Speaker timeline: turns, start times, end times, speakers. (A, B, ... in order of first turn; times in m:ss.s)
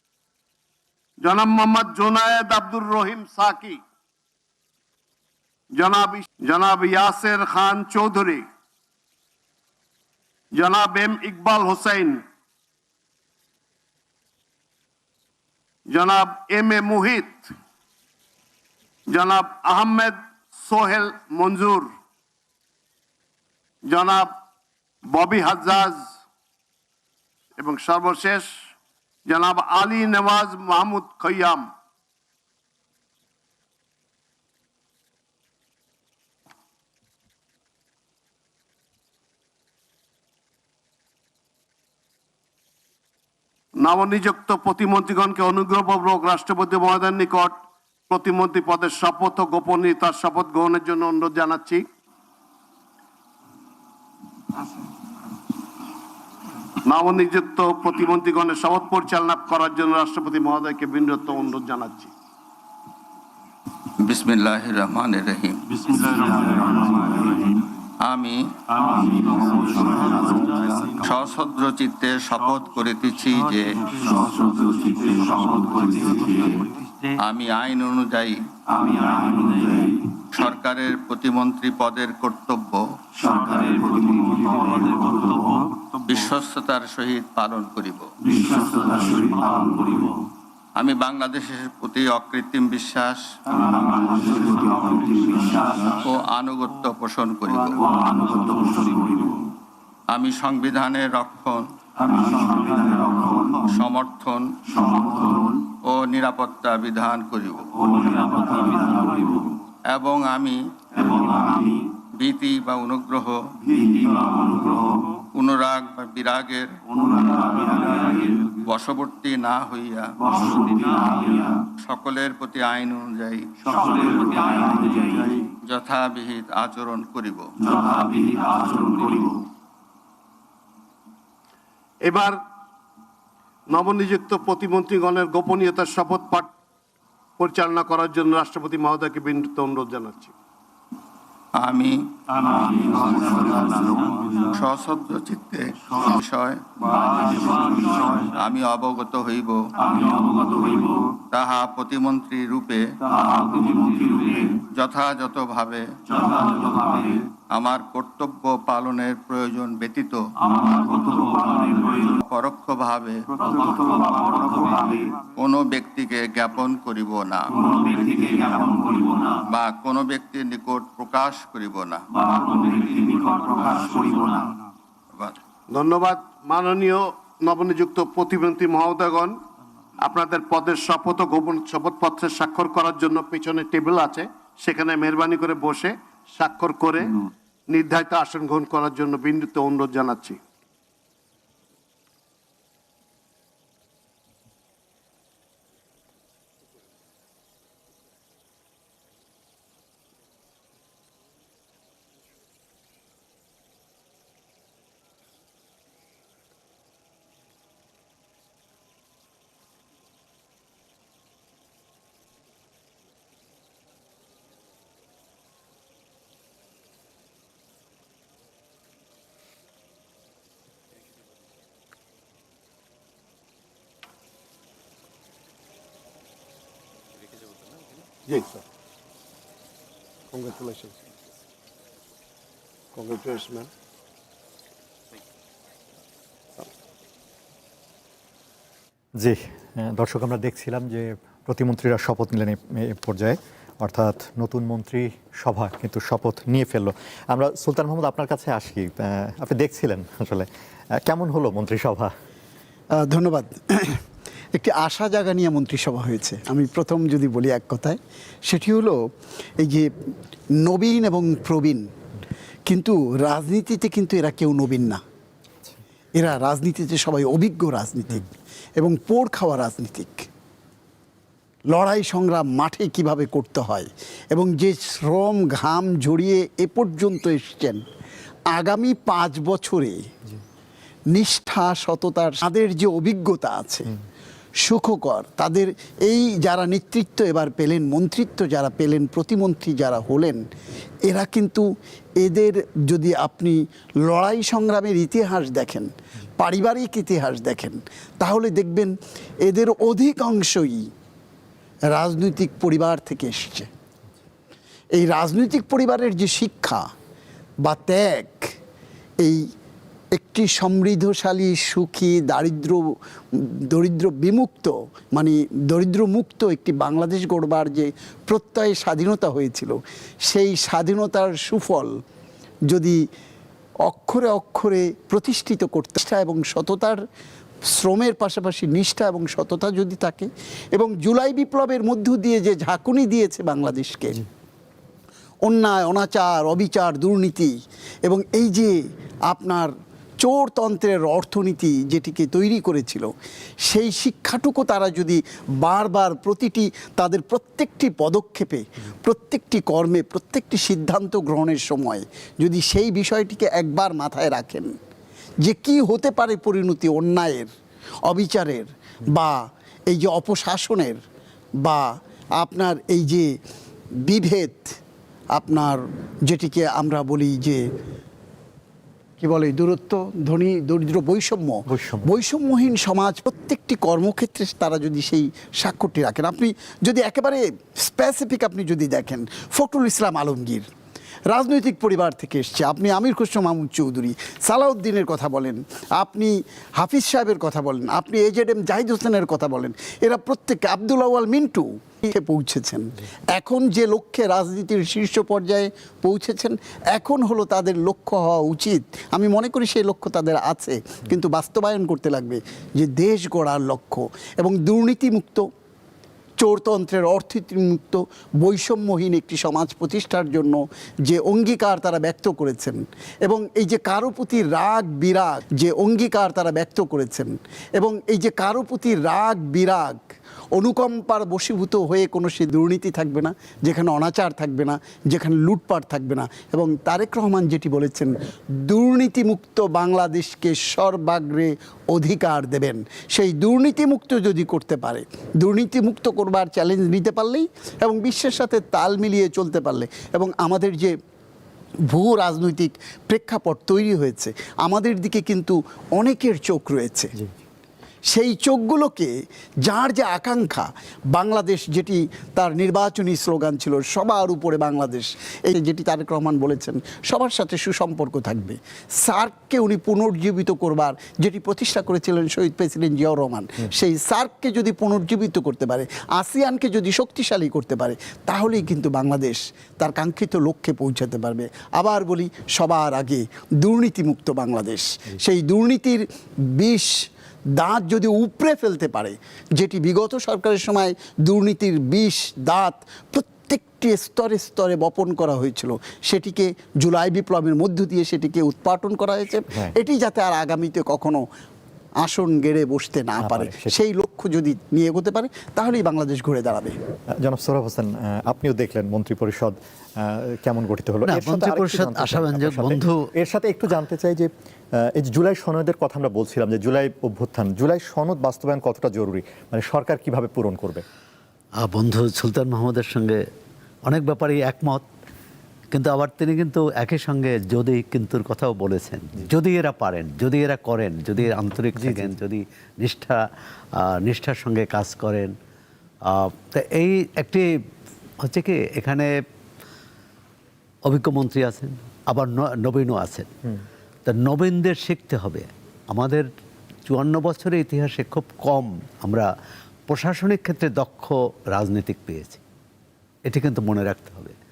0:01.2-0:03.8 A
0:05.7-0:08.5 A
0:10.6-0:12.2 A
0:15.9-0:17.5 A
0:19.1-0:21.9 A
0:23.9-0:24.3 A
0:25.0-0:26.1 A
0:27.6-0:28.6 A
0:29.3-0:31.7 A
0:43.8-0:47.6 A
0:48.1-0:51.8 A
0:56.9-1:02.1 A
1:04.0-1:06.2 B
1:08.0-1:08.5 B
1:10.9-1:14.1 B
1:14.2-1:16.2 C
1:17.2-1:18.4 B
1:18.9-1:19.8 C
1:20.3-1:22.9 B
1:23.4-1:25.4 C
1:26.1-1:28.1 B
1:28.6-1:29.7 C
1:30.8-1:33.3 B
1:35.9-1:38.0 B
1:38.6-1:39.0 C
1:40.1-1:41.7 B
1:43.5-1:47.7 B
1:48.4-1:49.1 C
1:49.9-1:50.6 B
1:52.2-1:53.4 B
1:55.3-1:56.8 B
1:58.5-2:00.5 B
2:01.8-2:03.5 B
2:04.3-2:04.9 B
2:05.6-2:07.5 B
2:07.9-2:09.4 C
2:12.0-2:12.4 A
2:13.7-2:16.5 A
2:17.4-2:20.3 A
2:21.6-2:26.6 B
2:27.2-2:29.6 B
2:31.3-2:32.9 B
2:34.5-2:35.9 B
2:37.5-2:40.3 B
2:41.9-2:43.3 B
2:44.0-2:44.6 C
2:45.4-2:48.3 B
2:49.4-2:52.1 B
2:52.6-2:54.4 C
2:55.7-2:59.4 A
3:00.0-3:10.4 A
3:48.3-3:48.6 A
3:50.3-3:51.0 A
3:53.0-3:53.7 A
3:59.2-4:12.1 D
4:12.9-4:14.0 E
4:14.5-4:19.9 E
4:20.5-4:21.9 E
4:22.7-4:25.0 E
4:26.1-4:30.3 E
4:31.7-4:37.8 E
4:38.5-4:40.1 E
4:41.1-4:44.0 E
4:44.6-4:50.4 E
4:51.0-5:00.9 E
5:01.9-5:03.7 E
5:04.9-5:06.9 E
5:07.6-5:08.5 E
5:09.2-5:09.5 E
5:10.1-5:22.0 E
5:22.7-5:23.0 E
5:23.8-5:27.0 E
5:27.7-5:34.2 E
5:35.4-5:54.8 E
5:55.4-5:57.5 E
5:58.1-6:01.0 E
6:01.6-6:03.4 E
6:04.0-6:04.8 E
6:05.3-6:07.6 E
6:09.2-6:20.7 E
6:11.7-6:12.1 D
6:21.3-6:45.5 E
6:46.4-7:00.0 E
7:00.6-7:21.0 E
7:21.9-7:27.1 E
7:28.1-8:11.2 E
8:12.0-8:16.8 E
8:13.2-8:13.8 D
8:17.2-8:30.8 D
8:21.1-8:23.1 F
8:31.6-8:33.2 F
8:33.9-8:34.8 F
8:35.7-8:43.2 F
8:41.8-8:42.2 D
8:43.8-8:45.4 F
8:46.1-8:47.5 F
8:48.2-8:49.1 F
8:50.9-8:53.3 F
8:54.1-8:56.3 F
8:56.9-8:59.3 F
8:59.9-9:02.4 F
9:03.3-9:04.4 F